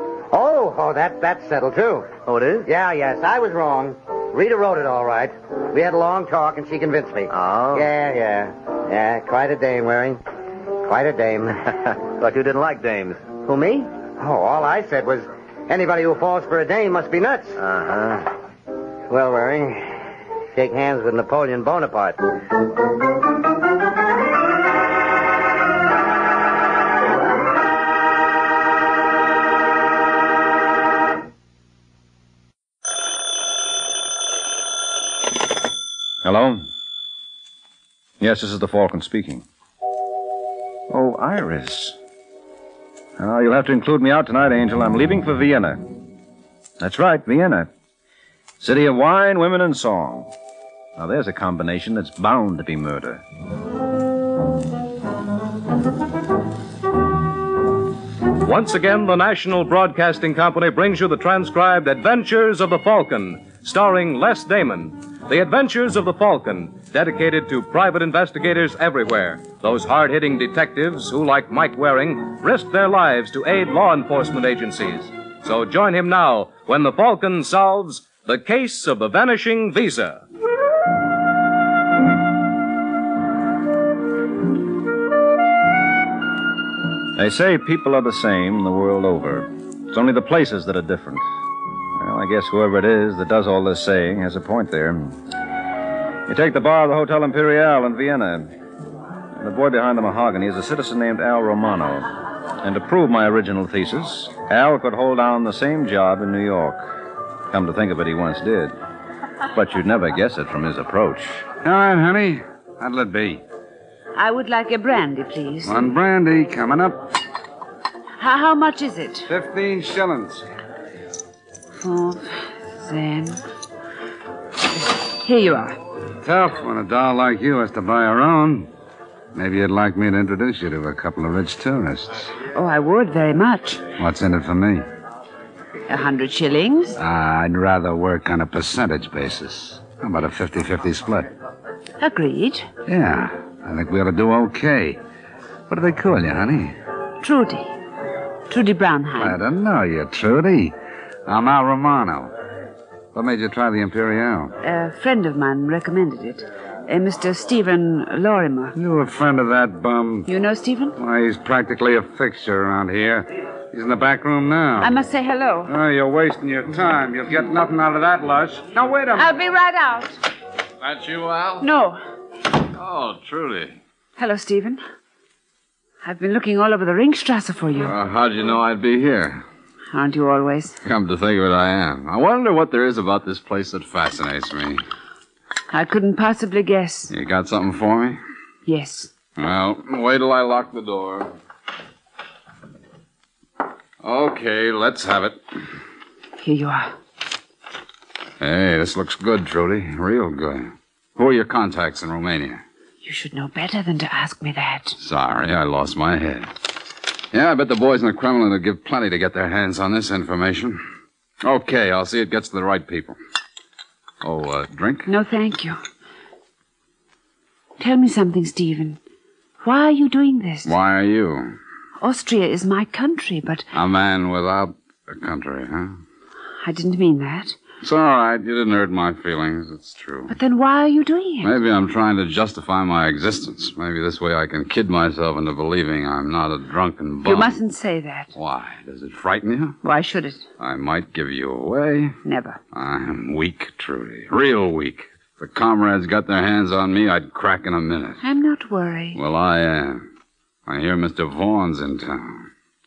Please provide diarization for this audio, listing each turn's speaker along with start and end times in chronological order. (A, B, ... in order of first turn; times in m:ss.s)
0:00.3-0:02.1 A
0:02.3-0:02.7 B
0:02.6-0:10.2 A
0:07.3-0:07.9 B
0:10.8-0:11.7 A
0:11.8-0:13.2 B
0:13.4-0:17.6 A
0:17.6-0:18.3 B
0:19.1-0:22.2 A
0:36.2-0:36.7 C
0:38.2-0:39.4 C
0:40.9-0:42.0 C
0:43.2-0:45.8 C
0:46.8-0:47.7 C
0:48.6-0:50.3 C
0:51.0-0:53.2 C
0:58.4-1:20.2 D
1:27.2-1:31.2 C
1:32.0-1:35.2 C
1:36.3-1:38.5 C
1:39.4-1:42.1 C
1:42.6-1:46.9 C
1:47.5-1:48.8 C
1:49.5-1:51.5 C
1:51.6-1:53.4 E
1:54.2-1:55.8 F
1:55.6-1:57.0 E
1:58.2-1:59.3 F
1:59.3-2:00.4 E
2:01.8-2:03.4 F
2:04.8-2:05.8 F
2:06.2-2:08.7 E
2:09.4-2:12.3 E
2:12.5-2:13.9 F
2:13.9-2:14.8 E
2:15.9-2:17.0 F
2:17.0-2:21.3 E
2:22.0-2:22.7 F
2:22.9-2:25.0 E
2:25.7-2:26.8 E
2:27.2-2:27.8 F
2:28.5-2:29.4 F
2:29.2-2:32.3 E
2:33.1-2:34.5 E
2:34.6-2:38.7 F
2:38.7-2:40.3 E
2:40.2-2:40.9 F
2:41.0-2:45.0 E
2:44.8-2:45.7 F
2:45.6-2:49.4 E
2:49.1-2:50.2 F
2:50.8-2:51.4 E
2:51.6-2:52.0 F
2:52.8-2:53.8 E
2:54.2-2:54.8 F
2:56.0-2:58.0 F
2:57.8-2:59.4 G
2:59.9-3:00.8 F
3:00.8-3:04.8 G
3:05.7-3:07.1 F
3:07.1-3:08.2 G
3:08.7-3:09.2 F
3:09.4-3:11.3 G
3:14.0-3:15.4 G
3:16.4-3:16.9 F
3:18.4-3:22.6 G
3:23.0-3:25.0 F
3:25.0-3:26.5 G
3:27.3-3:30.8 G
3:31.4-3:33.2 G
3:34.2-3:35.1 G
3:35.0-3:35.8 F
3:37.8-3:39.0 F
3:39.6-3:40.8 F
3:40.6-3:41.6 G
3:42.0-3:43.7 F
3:43.7-3:46.0 G
3:46.6-3:47.6 F
3:47.8-3:50.4 G
3:50.3-3:51.6 F
3:51.4-3:57.6 G
3:57.2-3:58.3 F
3:58.4-3:59.8 G
3:59.8-4:00.5 F
4:00.6-4:02.2 G
4:02.2-4:02.6 F
4:02.7-4:08.2 G
4:08.2-4:09.2 F
4:09.1-4:10.0 G
4:10.7-4:12.5 G